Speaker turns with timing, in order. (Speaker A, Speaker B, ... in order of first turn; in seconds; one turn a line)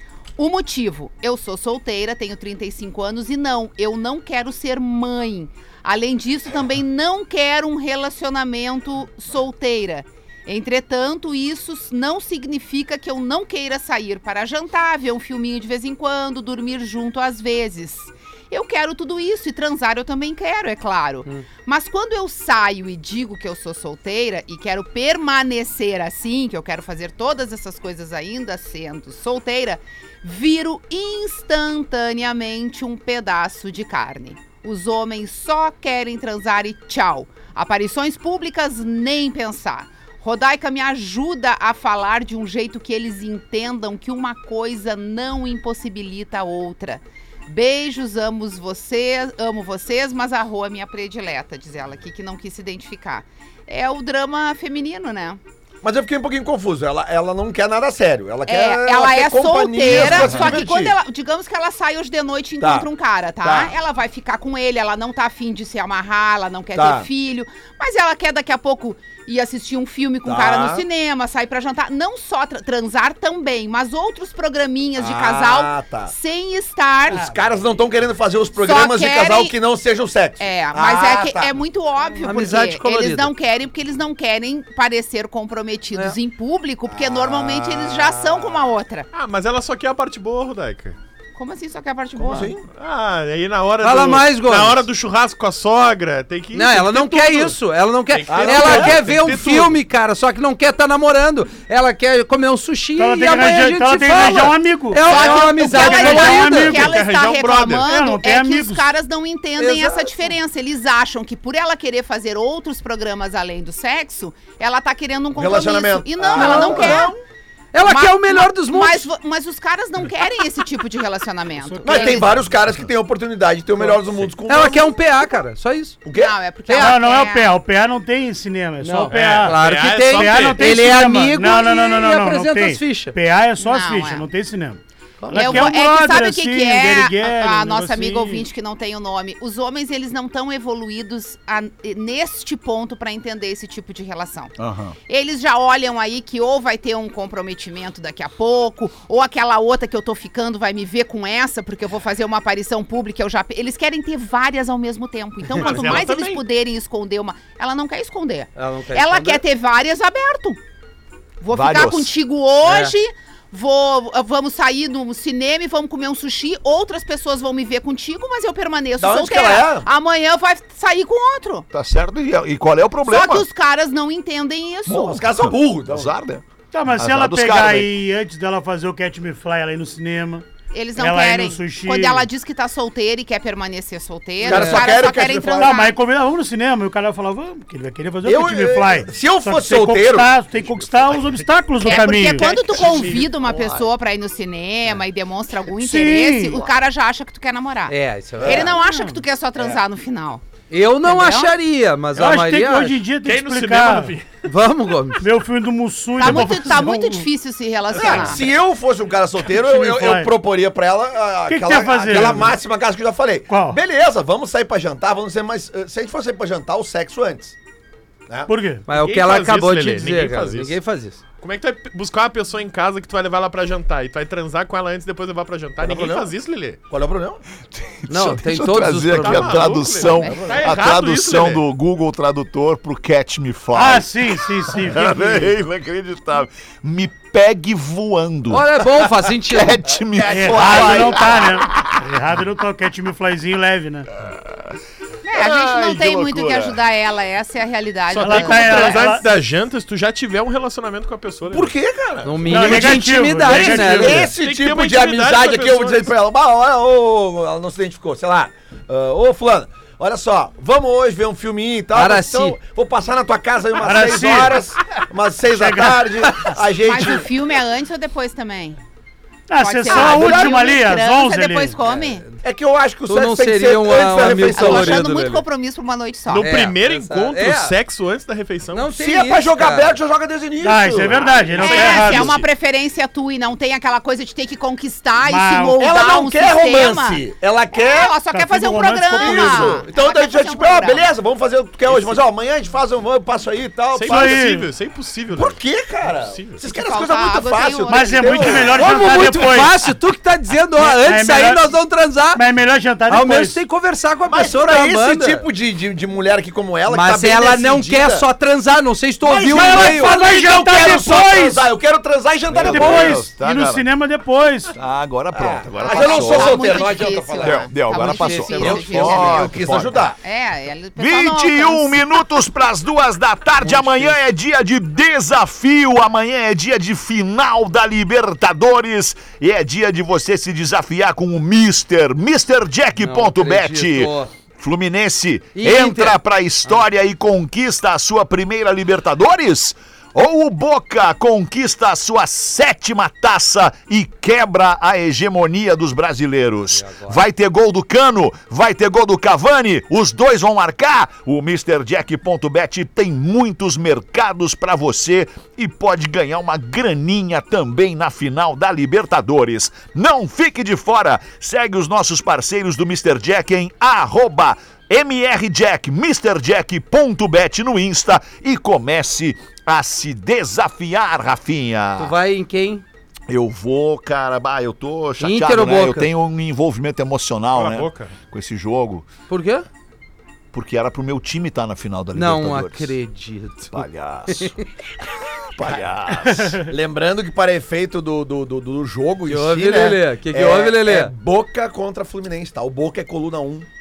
Speaker A: 0.4-55.4
Speaker B: 55.8-61.0
Speaker A: 58.5-77.3
Speaker C: 59.9-60.6
Speaker B: 62.6-62.9
Speaker B: 63.4-63.8
Speaker B: 66.8-67.1
Speaker B: 70.2-70.8
Speaker B: 75.0-76.1
Speaker B: 77.1-81.6
Speaker A: 78.6-79.6
Speaker A: 80.4-89.1
Speaker D: 82.2-83.3
Speaker B: 86.9-88.7
Speaker E: 89.1-91.0
Speaker A: 91.3-92.5
Speaker B: 92.2-92.6
Speaker E: 92.8-97.6
Speaker D: 93.8-94.8
Speaker D: 96.5-106.8
Speaker E: 98.1-99.7
Speaker B: 98.3-99.3
Speaker F: 103.0-107.0
Speaker A: 105.0-117.2
Speaker E: 106.5-107.9
Speaker F: 107.8-108.9
Speaker D: 109.6-110.1
Speaker B: 115.3-117.2
Speaker D: 116.3-117.1
Speaker D: 117.7-119.1
Speaker A: 117.8-122.3
Speaker F: 121.6-122.3
Speaker B: 121.8-124.9
Speaker D: 124.5-126.0
Speaker B: 126.1-126.4
Speaker A: 126.1-127.5
Speaker F: 126.8-138.5
Speaker D: 128.8-133.2
Speaker E: 129.1-130.7
Speaker A: 133.6-134.3
Speaker C: 135.2-135.7
Speaker A: 135.3-144.6
Speaker C: 144.6-145.0
Speaker A: 145.1-160.6
Speaker E: 155.5-156.4
Speaker D: 158.6-159.4
Speaker A: 161.4-171.7
Speaker C: 161.5-162.1
Speaker D: 162.6-162.9
Speaker B: 169.0-169.9
Speaker C: 171.7-173.5
Speaker A: 173.1-175.3
Speaker B: 174.9-176.1
Speaker C: 175.4-177.9
Speaker F: 176.7-182.3
Speaker A: 180.7-185.9
Speaker B: 184.4-185.8
Speaker D: 184.5-184.8
Speaker F: 185.6-192.7
Speaker B: 188.2-190.4
Speaker A: 191.8-200.4
Speaker E: 192.7-193.3
Speaker B: 192.8-193.2
Speaker F: 195.8-196.6
Speaker D: 197.9-198.8
Speaker B: 198.4-198.8
Speaker F: 198.8-199.2
Speaker D: 200.7-203.0
Speaker A: 201.0-201.6
Speaker F: 202.2-204.2
Speaker E: 203.2-204.3
Speaker D: 204.4-205.3
Speaker F: 205.2-207.3
Speaker A: 206.2-208.5
Speaker B: 207.9-217.6
Speaker F: 209.5-210.3
Speaker F: 211.5-212.6
Speaker F: 213.5-213.8
Speaker B: 218.3-218.5
Speaker F: 218.5-218.9
Speaker D: 218.9-221.2
Speaker E: 218.9-220.8
Speaker E: 221.4-226.8
Speaker B: 225.8-226.3
Speaker B: 226.9-227.4
Speaker C: 227.7-242.0
Speaker D: 228.1-229.7
Speaker E: 229.2-231.6
Speaker A: 230.1-230.5
Speaker B: 230.3-230.5
Speaker F: 233.8-235.5
Speaker D: 238.5-239.8
Speaker B: 240.2-241.2
Speaker F: 240.3-244.1
Speaker C: 244.3-244.8
Speaker A: 245.2-249.1
Speaker C: 245.3-246.8
Speaker E: 248.1-251.7
Speaker F: 248.2-249.3
Speaker B: 251.5-267.3
Speaker D: 252.2-254.3
Speaker F: 252.5-254.3
Speaker E: 254.2-256.1
Speaker D: 261.9-262.6
Speaker F: 263.8-264.6
Speaker F: 265.5-266.3
Speaker A: 266.8-268.8
Speaker F: 269.5-271.8
Speaker A: 269.6-272.2
Speaker B: 269.9-270.7
Speaker D: 271.8-272.4
Speaker B: 272.4-275.0
Speaker D: 273.1-275.4
Speaker A: 274.5-276.5
Speaker E: 276.3-278.9
Speaker D: 276.4-277.8
Speaker D: 278.7-279.9
Speaker B: 279.0-281.5
Speaker F: 280.6-282.4
Speaker A: 281.5-291.1
Speaker E: 281.6-282.5
Speaker F: 285.2-285.8
Speaker B: 285.8-288.2
Speaker F: 288.3-289.9
Speaker B: 289.2-294.4
Speaker E: 291.9-292.2
Speaker E: 293.9-296.6
Speaker F: 294.1-294.7
Speaker B: 295.3-299.0
Speaker A: 296.6-298.6
Speaker F: 297.9-299.8
Speaker D: 298.7-302.4
Speaker F: 300.8-301.7
Speaker F: 302.3-303.6
Speaker D: 303.1-305.5
Speaker B: 304.3-308.3
Speaker D: 306.9-310.2
Speaker B: 309.2-313.3
Speaker F: 309.4-311.7
Speaker C: 312.5-313.9
Speaker F: 312.6-314.7
Speaker C: 314.8-316.7
Speaker B: 315.3-317.8
Speaker A: 315.8-322.0
Speaker C: 317.4-320.1
Speaker D: 317.9-319.2
Speaker B: 318.6-320.2
Speaker C: 321.0-372.1
Speaker D: 323.6-324.1
Speaker D: 333.0-334.3
Speaker D: 335.6-336.2
Speaker D: 346.7-347.2
Speaker D: 372.0-372.8
Speaker C: 373.3-379.1
Speaker D: 375.2-376.1
Speaker E: 377.5-378.1
Speaker D: 379.3-379.7
Speaker C: 380.5-382.9
Speaker D: 382.1-384.6
Speaker C: 383.7-384.6
Speaker C: 385.2-386.6
Speaker B: 385.6-385.8
Speaker F: 386.3-386.7
Speaker B: 386.7-393.7
Speaker D: 389.3-391.1